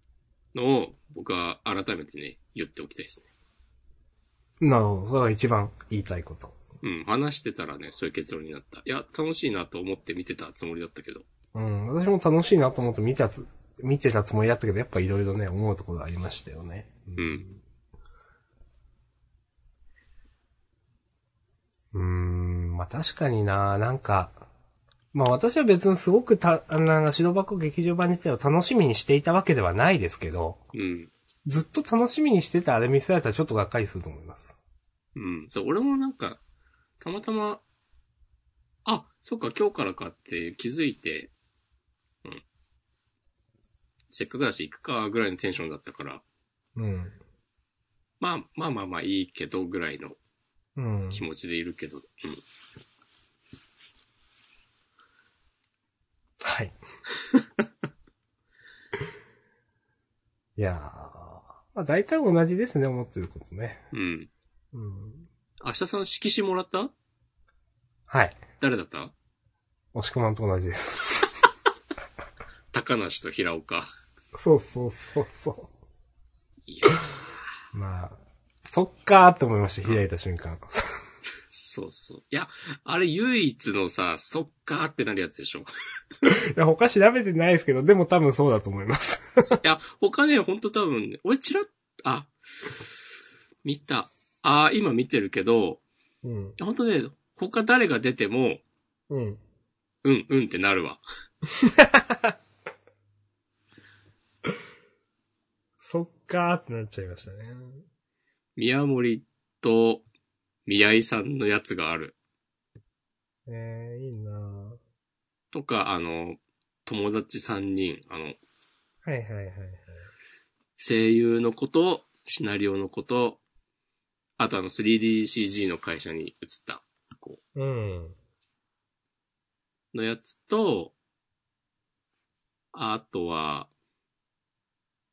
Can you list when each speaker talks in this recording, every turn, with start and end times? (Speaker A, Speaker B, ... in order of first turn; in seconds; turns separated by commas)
Speaker A: 0.5-3.3, Speaker B: 4.6-6.5, Speaker A: 6.8-11.2, Speaker B: 11.5-17.6, Speaker A: 17.2-17.4, Speaker B: 21.9-24.4, Speaker B: 25.1-30.6, Speaker A: 30.7-31.1, Speaker B: 31.4-34.5, Speaker A: 35.1-36.4, Speaker A: 37.0-37.6, Speaker A: 38.8-41.3, Speaker A: 44.1-46.2, Speaker B: 46.8-47.2, Speaker A: 48.2-50.2, Speaker B: 50.8-51.2, Speaker A: 51.1-52.4, Speaker B: 56.4-56.7, Speaker B: 60.6-63.9, Speaker A: 63.9-64.3, Speaker B: 64.7-65.3, Speaker A: 65.6-66.9, Speaker B: 68.1-68.4, Speaker A: 68.6-69.1, Speaker B: 69.9-71.4, Speaker A: 72.7-73.9, Speaker B: 74.3-75.7, Speaker A: 76.6-77.5, Speaker B: 77.7-80.9, Speaker A: 81.5-85.7, Speaker B: 86.2-89.6, Speaker A: 89.5-92.3, Speaker A: 93.6-95.8, Speaker B: 96.2-96.6, Speaker A: 96.6-98.6, Speaker B: 99.1-99.4, Speaker A: 100.0-101.0, Speaker B: 101.6-102.3, Speaker B: 105.8-107.8, Speaker A: 108.5-110.0, Speaker A: 110.7-112.1, Speaker B: 113.5-114.8, Speaker A: 115.5-118.4, Speaker B: 119.0-120.0, Speaker A: 120.8-123.4, Speaker A: 124.4-127.4, Speaker B: 127.5-128.2, Speaker A: 129.9-130.9, Speaker A: 132.7-133.7